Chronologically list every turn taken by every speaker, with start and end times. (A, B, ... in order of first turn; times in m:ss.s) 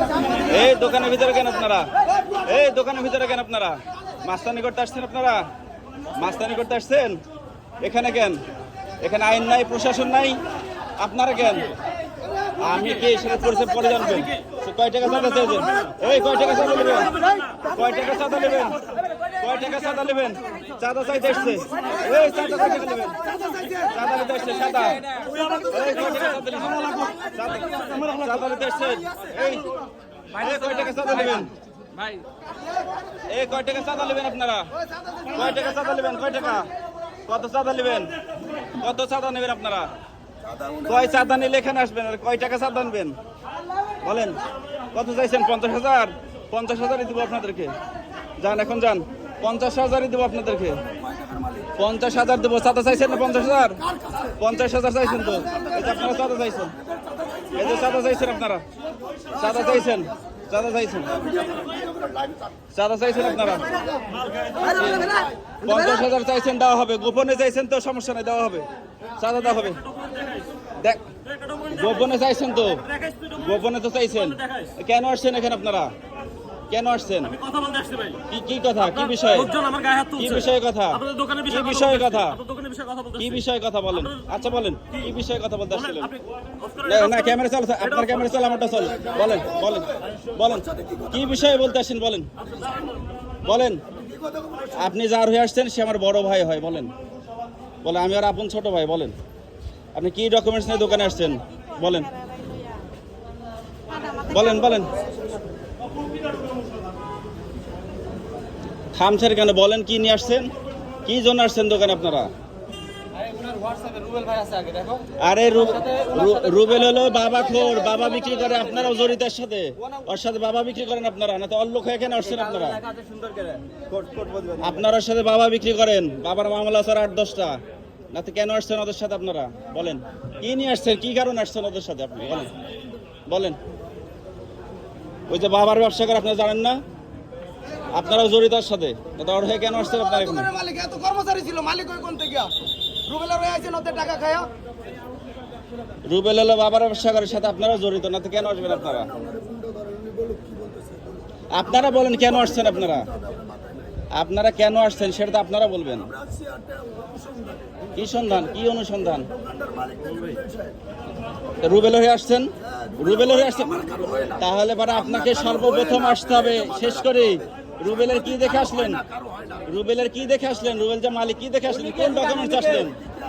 0:00.4-0:05.4 A
0:06.2-0:07.2 A
0:07.8-0:08.4 A
0:09.0-0:10.4 A
0:11.0-0:11.7 A
0:12.6-0:17.2 A
0:17.7-0:23.2 A
0:23.3-0:23.8 B
0:23.8-0:25.0 A
0:25.6-0:29.7 A
0:30.3-0:31.5 A
0:31.9-0:32.2 B
0:33.3-0:34.7 A
0:35.3-0:36.7 A
0:37.2-0:38.1 A
0:38.7-0:39.9 A
0:40.7-0:43.2 A
0:44.0-0:44.4 A
0:44.9-0:47.8 A
0:48.4-0:50.8 A
0:51.8-0:53.8 A
0:54.4-0:56.7 A
0:57.1-0:57.5 B
0:57.5-0:58.6 A
0:59.3-1:01.4 A
1:01.5-1:02.4 B
1:02.7-1:03.8 A
1:04.6-1:05.3 B
1:04.7-1:08.6 A
1:09.2-1:09.8 A
1:09.9-1:10.5 C
1:10.8-1:11.0 A
1:11.3-1:11.6 C
1:11.6-1:15.9 A
1:13.0-1:13.3 C
1:16.7-1:17.4 A
1:17.4-1:18.2 C
1:18.3-1:19.6 A
1:19.5-1:20.2 C
1:20.1-1:22.4 A
1:21.0-1:21.6 C
1:22.3-1:23.2 C
1:23.1-1:26.1 A
1:26.8-1:32.3 A
1:33.4-1:33.8 A
1:34.7-1:36.9 A
1:37.8-1:39.1 A
1:39.9-1:42.2 A
1:44.2-1:44.9 A
1:48.9-1:50.5 A
1:51.0-1:52.3 A
1:53.2-1:55.1 B
1:55.2-2:02.8 A
1:55.8-1:56.7 B
1:57.5-1:58.6 B
2:02.2-2:04.7 B
2:04.6-2:07.6 A
2:08.1-2:12.5 A
2:13.3-2:13.6 A
2:15.3-2:16.8 A
2:17.9-2:20.5 A
2:20.5-2:22.5 B
2:23.0-2:24.5 B
2:26.1-2:29.2 A
2:29.3-2:31.0 B
2:31.5-2:33.1 A
2:34.1-2:36.1 A
2:36.2-2:37.5 B
2:37.9-2:39.3 A
2:39.6-2:40.7 B
2:41.6-2:49.0 A
2:43.9-2:44.3 B
2:49.2-2:49.6 B
2:49.6-2:53.0 A
2:51.7-2:52.9 B